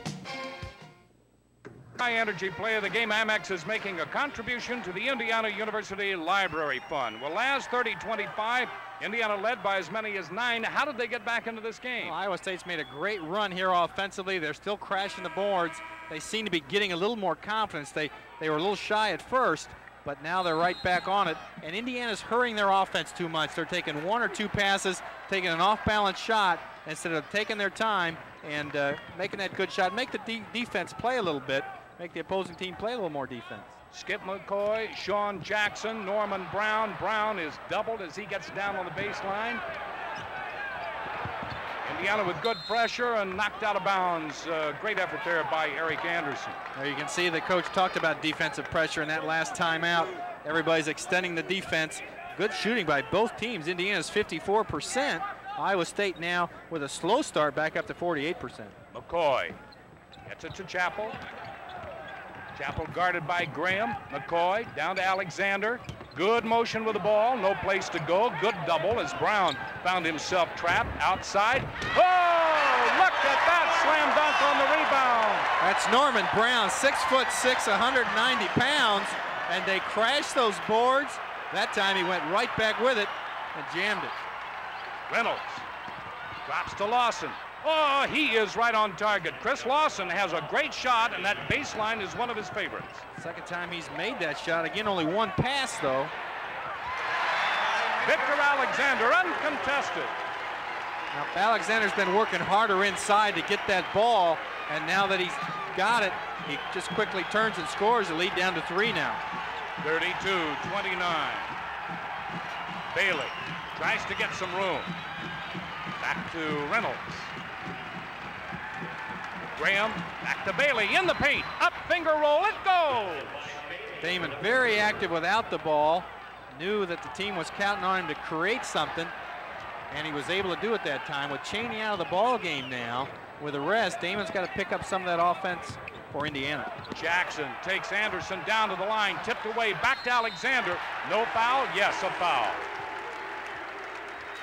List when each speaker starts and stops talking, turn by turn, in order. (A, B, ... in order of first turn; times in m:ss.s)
0:02.0-0:12.2 A
0:12.0-0:33.8 B
0:33.9-0:39.6 A
0:41.8-0:46.6 A
0:46.8-0:58.8 B
0:58.9-0:59.6 A
1:00.3-1:01.2 A
1:02.5-1:15.5 A
1:15.6-1:24.3 B
1:25.1-1:25.7 A
1:26.4-1:33.0 A
1:33.2-1:36.1 B
1:38.0-1:40.2 A
1:41.1-1:49.2 B
1:49.8-1:51.6 A
1:52.9-1:55.0 A
1:56.0-1:57.3 A
1:59.5-2:03.6 A
2:04.0-2:09.1 B
2:09.9-2:16.7 B
2:16.9-2:22.7 A